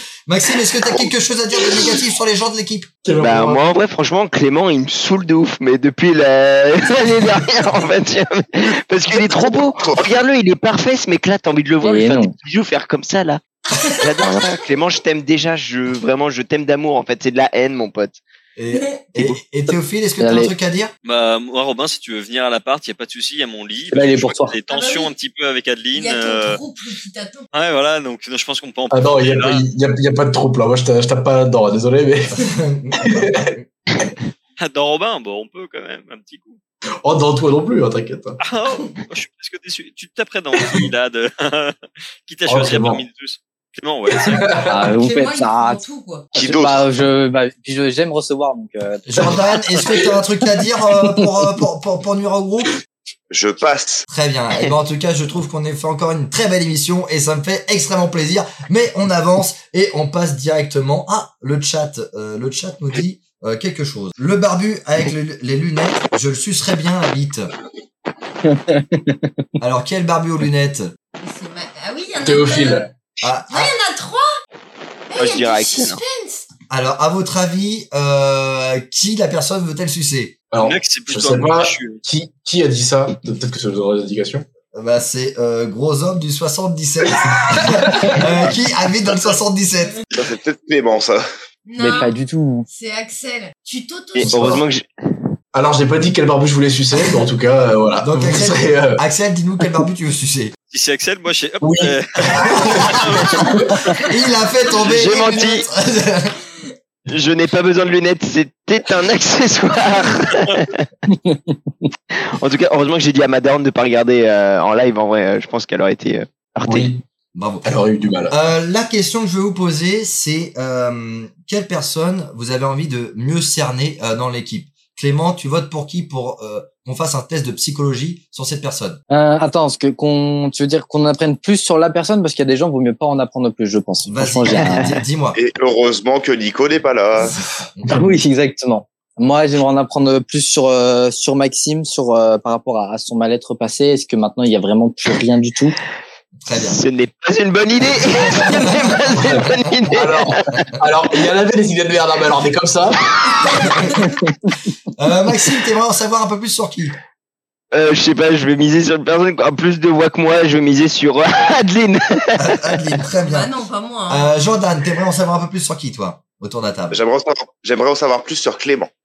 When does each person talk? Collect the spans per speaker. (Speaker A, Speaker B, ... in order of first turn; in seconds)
Speaker A: 0.3-2.9, 18.6-20.9, 32.4-33.6, 49.0-52.8, 54.1-67.5, 69.6-70.9, 73.2-73.7, 76.7-80.3, 84.7-90.0, 98.0-100.5, 102.5-106.3, 117.3-117.7, 118.3-129.0, 134.1-135.4, 137.2-138.0, 146.4-146.8, 154.9-156.9, 162.4-163.5, 164.1-167.0
Speaker B: 3.0-3.6, 28.9-33.5, 37.0-38.4, 42.5-43.0, 44.1-44.9, 49.2-50.1, 72.2-72.9, 80.5-84.4, 87.1-88.4, 94.2-94.6, 95.5-99.0, 101.6-103.7, 116.7-117.0, 117.6-118.3, 149.1-153.0
Speaker C: 3.2-18.2, 75.2-76.0, 94.1-94.9, 104.8-105.7, 107.1-110.9, 112.1-116.9, 134.6-134.9, 146.5-150.7, 157.7-162.8
Speaker D: 8.7-10.1, 46.3-46.9, 53.3-54.0, 90.1-91.2, 135.3-137.4, 166.9-168.9
Speaker E: 11.8-12.3, 20.2-20.5, 23.9-24.6, 44.6-45.8, 46.4-49.3, 68.5-69.2, 91.8-92.7, 111.2-111.5, 129.1-134.9, 137.9-145.8
Speaker F: 13.7-14.4, 18.7-19.0, 24.7-25.1, 25.9-27.5, 45.0-46.3, 71.2-72.9, 73.5-74.3, 75.1-76.5, 91.7-92.1, 92.7-94.3, 153.2-154.2, 163.2-164.5
Speaker G: 21.0-26.6, 27.5-29.7, 34.6-36.6, 38.4-44.8, 80.6-82.0, 100.7-104.0